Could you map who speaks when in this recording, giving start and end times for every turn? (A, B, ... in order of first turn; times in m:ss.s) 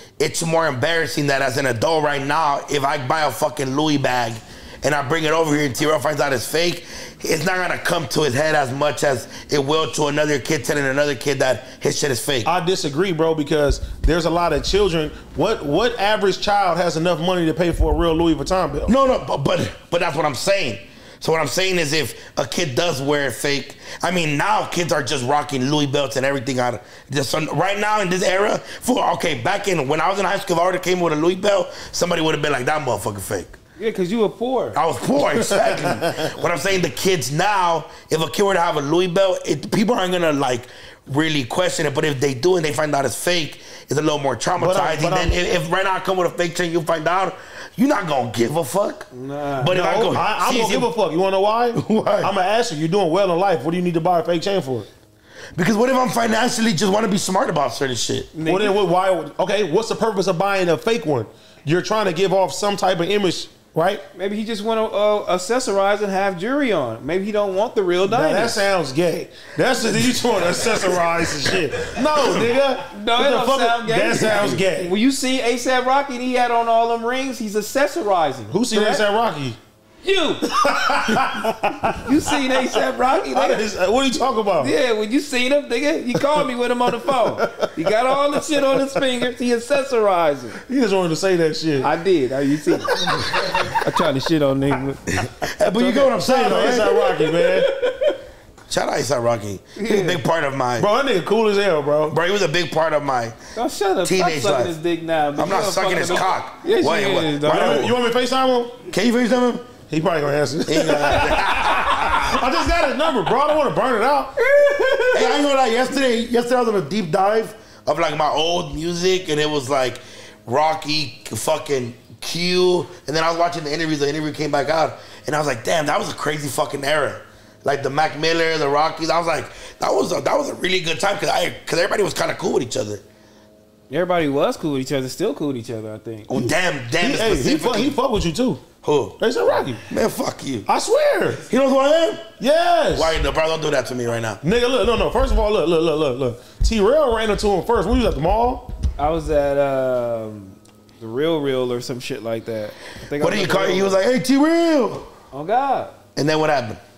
0:00.2-0:12.5 A
0:12.4-0:18.9 B
0:18.9-0:33.6 A
0:33.8-0:34.8 C
0:34.7-0:50.9 A
0:35.3-0:36.2 B
0:44.6-0:45.4 B
0:49.1-0:49.8 C
0:49.7-0:54.9 B
0:51.7-0:52.3 A
0:55.6-0:58.3 A
0:58.3-0:58.8 C
0:58.4-1:04.0 B
1:04.2-1:08.6 C
1:08.0-1:14.9 B
1:12.9-1:19.0 C
1:14.2-1:14.6 A
1:18.5-1:19.6 B
1:20.0-1:20.5 C
1:20.4-1:24.8 B
1:21.9-1:23.6 C
1:24.6-1:30.6 C
1:27.0-1:29.1 B
1:30.7-1:31.9 B
1:31.8-1:35.0 C
1:32.8-1:33.8 B
1:35.2-1:37.0 A
1:35.6-1:38.2 C
1:36.2-1:37.7 B
1:38.7-1:40.9 A
1:39.8-1:40.2 C
1:40.8-1:42.2 B
1:42.1-1:43.4 A
1:43.6-1:47.9 C
1:44.0-1:44.7 A
1:45.4-1:48.0 A
1:47.4-1:48.8 B
1:48.9-1:49.7 A
1:49.9-1:54.4 B
1:50.7-1:52.4 A
1:51.2-1:51.6 C
1:54.4-1:55.4 C
1:55.1-2:13.0 A
2:13.9-2:16.3 C
2:16.3-2:18.0 A
2:16.4-2:18.6 B
2:18.8-2:19.2 A
2:19.2-2:19.8 B
2:19.9-2:20.7 A
2:20.7-2:21.4 B
2:21.5-2:22.3 A
2:22.4-2:23.2 B
2:22.9-2:24.4 A
2:24.4-2:28.7 B
2:29.0-2:34.0 C
2:33.2-2:35.1 A
2:35.3-2:35.9 C
2:36.2-2:36.8 A